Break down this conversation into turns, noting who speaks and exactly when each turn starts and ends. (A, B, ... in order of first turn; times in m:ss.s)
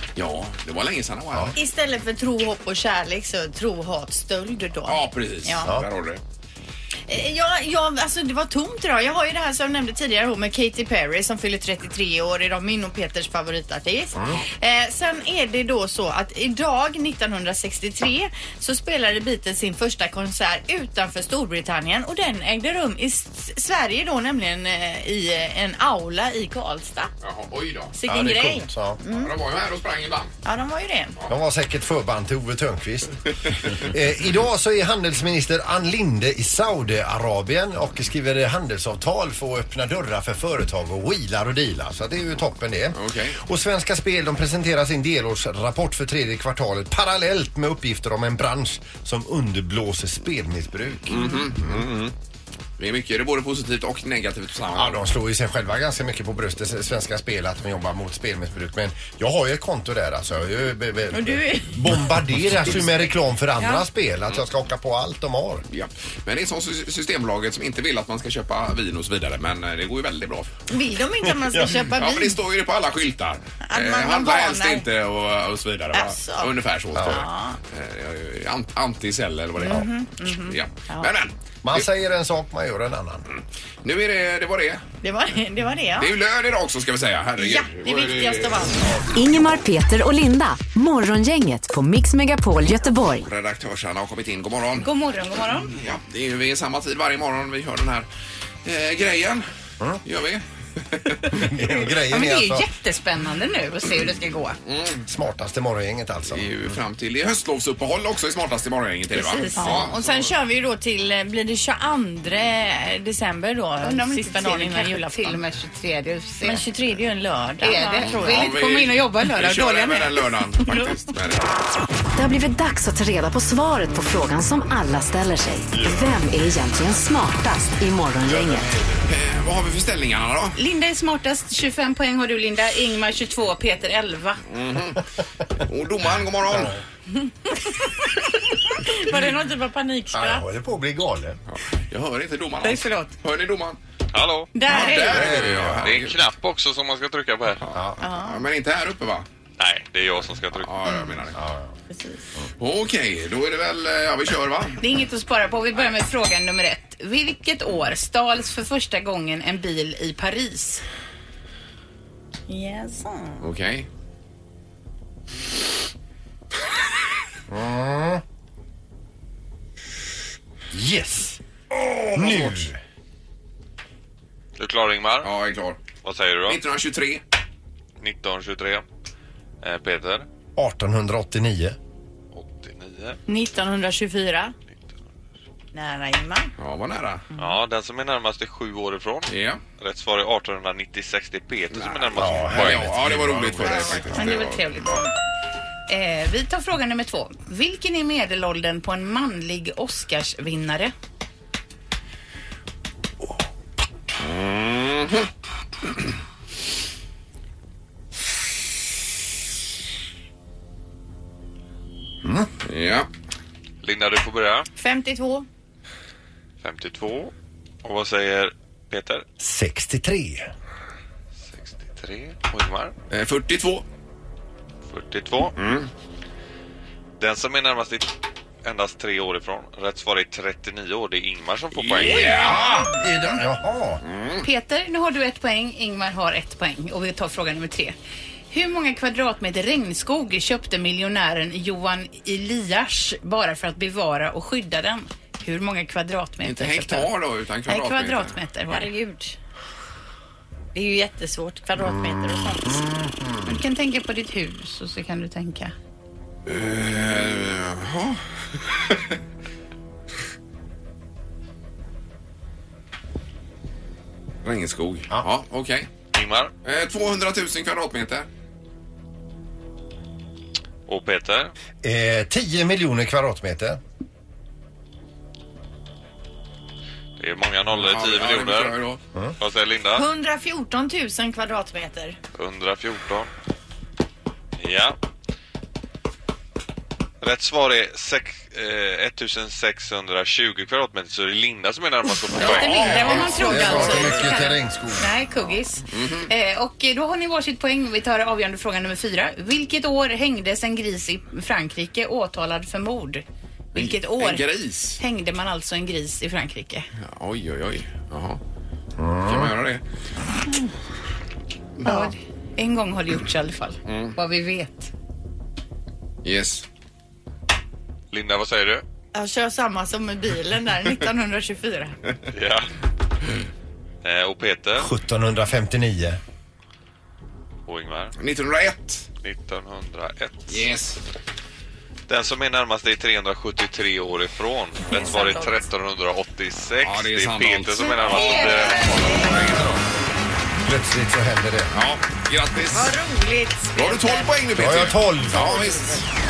0:00.2-0:01.6 A
0:01.6-0:05.7 B
0:04.9-0:06.2 A
0:07.1-0:27.1 B
0:27.2-0:27.9 A
0:27.9-0:29.3 B
0:28.1-0:29.0 C
0:29.1-0:30.3 A
0:30.4-0:31.2 B
0:31.3-0:33.2 C
0:33.7-0:51.9 C
0:43.0-0:43.4 A
0:51.1-0:52.1 A
0:52.8-0:55.1 A
0:54.7-1:05.6 C
1:01.1-1:02.0 B
1:05.7-1:10.5 A
1:10.7-1:12.4 B
1:11.7-1:21.9 A
1:13.6-1:14.9 B
1:15.9-1:17.6 B
1:17.0-1:17.2 C
1:19.6-1:21.1 B
1:21.6-1:23.3 C
1:23.3-1:24.8 A
1:25.0-1:26.1 B
1:26.0-1:29.0 A
1:27.4-1:29.0 B
1:29.1-1:33.3 D
1:33.2-1:34.9 A
1:34.8-1:35.8 E
1:35.7-1:38.1 A
1:38.6-1:39.5 A
1:40.0-1:41.4 A
1:41.3-1:42.7 C
1:42.0-1:44.6 E
1:44.7-1:45.0 A
1:45.1-1:46.5 C
1:46.3-1:50.3 A
1:49.2-1:55.4 B
1:53.8-1:56.6 E
1:56.4-1:58.5 B
1:57.6-2:00.3 E
1:58.0-2:01.5 A
2:02.2-2:08.7 D
2:08.9-2:10.6 A
2:10.6-2:14.4 E
2:14.5-2:15.0 A
2:15.6-2:16.8 A
2:16.5-2:16.8 C
2:17.6-2:20.5 B
2:20.1-2:21.4 C
2:21.5-2:23.8 A
2:22.7-2:23.0 E
2:24.1-2:24.5 F
2:24.5-2:25.2 E
2:24.7-2:25.2 B
2:24.7-2:26.2 A
2:24.9-2:25.9 C
2:25.6-2:27.6 F
2:27.6-2:29.3 A
2:28.0-2:28.4 B
2:29.6-2:30.7 F
2:30.6-2:31.4 A
2:31.4-2:31.7 C
2:31.9-2:32.2 B
2:32.6-2:34.8 A
2:34.8-2:40.8 E
2:42.5-2:43.4 B
2:43.4-2:43.9 A
2:47.5-2:48.2 C
2:50.7-2:51.4 C
2:51.8-2:52.7 A
2:52.1-2:52.8 C
2:54.6-2:55.3 F
2:55.2-2:55.8 A
2:56.0-2:56.6 F
2:56.5-2:57.2 A
2:58.0-2:58.8 F
2:59.6-3:00.3 F
3:00.6-3:01.8 C
3:02.3-3:03.2 F
3:03.3-3:04.5 B
3:05.7-3:06.5 B
3:06.6-3:07.3 A
3:07.4-3:13.5 F
3:09.3-3:09.6 A
3:11.7-3:15.0 A
3:12.2-3:13.8 C
3:13.7-3:14.1 B
3:14.0-3:15.1 E
3:15.9-3:20.9 E
3:24.2-3:25.3 A
3:32.2-3:32.5 C
3:32.6-3:33.1 A
3:33.8-3:34.7 F
3:34.8-3:35.5 B
3:36.6-3:37.3 F
3:37.8-3:39.2 F
3:39.4-3:40.5 C
3:41.5-3:42.9 F
3:43.1-3:43.8 A
3:44.9-3:45.6 F
3:45.6-3:45.9 A
3:47.2-3:52.6 F
3:51.8-3:52.9 A
3:52.1-3:54.0 C
3:54.0-3:54.4 A
3:54.4-3:58.0 E
3:58.5-4:07.1 E
4:06.4-4:08.4 A
4:07.7-4:08.9 E
4:08.7-4:09.4 B
4:10.7-4:12.8 B
4:11.8-4:13.5 C
4:13.4-4:15.8 E
4:16.5-4:19.0 A
4:24.4-4:25.9 A
4:26.1-4:26.5 F
4:26.6-4:28.3 A
4:30.9-4:31.5 F
4:31.8-4:33.8 C
4:37.2-4:38.8 F
4:37.7-4:39.0 A
4:39.4-4:40.1 F
4:39.9-4:42.2 B
4:42.3-4:43.3 F
4:44.6-4:45.0 F
4:47.2-4:53.2 F
4:52.3-5:04.5 E
4:52.4-4:54.0 A
4:52.9-4:54.5 B
4:53.4-4:55.2 C
4:55.9-4:56.3 A
5:03.7-5:05.0 A
5:05.0-5:06.9 E
5:07.0-5:08.4 A
5:09.0-5:09.5 C
5:09.2-5:09.8 A
5:11.8-5:14.9 E
5:13.9-5:14.2 A
5:16.2-5:16.6 A
5:18.1-5:18.8 F
5:19.1-5:22.0 B
5:22.3-5:22.7 F
5:24.0-5:24.9 F
5:24.8-5:26.2 C
5:27.7-5:28.1 F
5:28.2-5:29.1 A
5:29.2-5:30.6 F
5:30.5-5:31.0 A
5:32.1-5:39.7 F
5:34.9-5:35.6 B
5:36.8-5:39.7 A
5:38.1-5:39.5 B
5:40.6-5:41.7 C
5:41.7-5:43.0 A
5:42.7-5:44.3 B
5:43.8-5:46.1 A
5:44.6-5:45.8 C